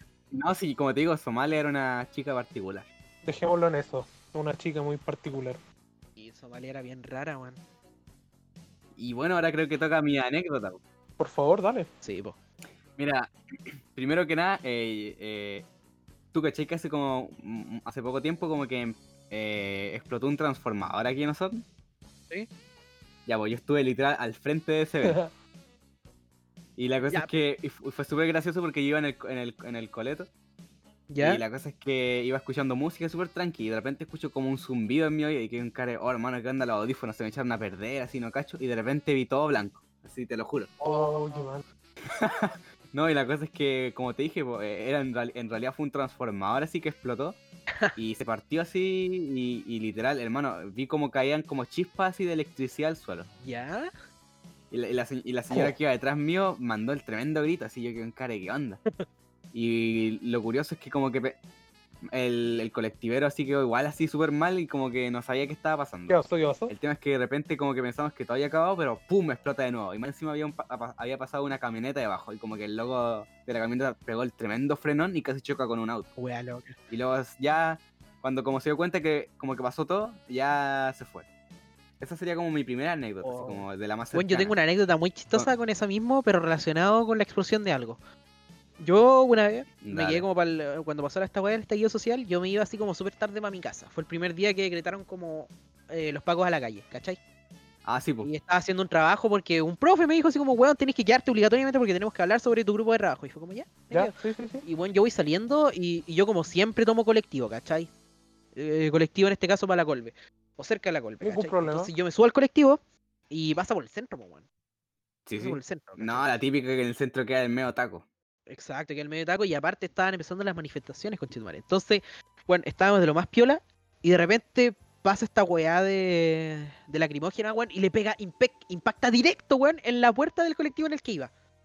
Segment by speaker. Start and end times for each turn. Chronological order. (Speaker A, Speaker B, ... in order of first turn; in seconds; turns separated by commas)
Speaker A: 0.3-2.9, Speaker B: 3.2-5.6, Speaker C: 6.2-7.6, Speaker A: 9.0-10.8, Speaker B: 11.2-11.9, Speaker C: 12.0-12.4, Speaker A: 13.0-15.7, Speaker A: 16.3-21.6, Speaker A: 23.2-25.2, Speaker B: 25.0-25.3, Speaker A: 26.8-30.3, Speaker C: 31.1-31.4, Speaker A: 31.2-40.7, Speaker B: 40.8-41.6, Speaker C: 40.9-41.3, Speaker A: 42.0-47.4, Speaker A: 47.9-53.3, Speaker C: 53.4-53.9, Speaker A: 54.7-58.8, Speaker A: 59.5-61.4, Speaker A: 62.1-76.1, Speaker B: 66.1-66.8, Speaker C: 76.2-76.8, Speaker A: 76.9-81.2, Speaker A: 82.0-84.5, Speaker C: 83.2-88.0, Speaker C: 88.8-97.2, Speaker A: 89.8-90.2, Speaker A: 97.8-98.3, Speaker C: 98.2-107.9, Speaker B: 103.9-104.7, Speaker C: 108.5-114.5, Speaker B: 111.2-111.9, Speaker A: 115.2-118.0, Speaker C: 115.3-116.3, Speaker C: 118.5-131.3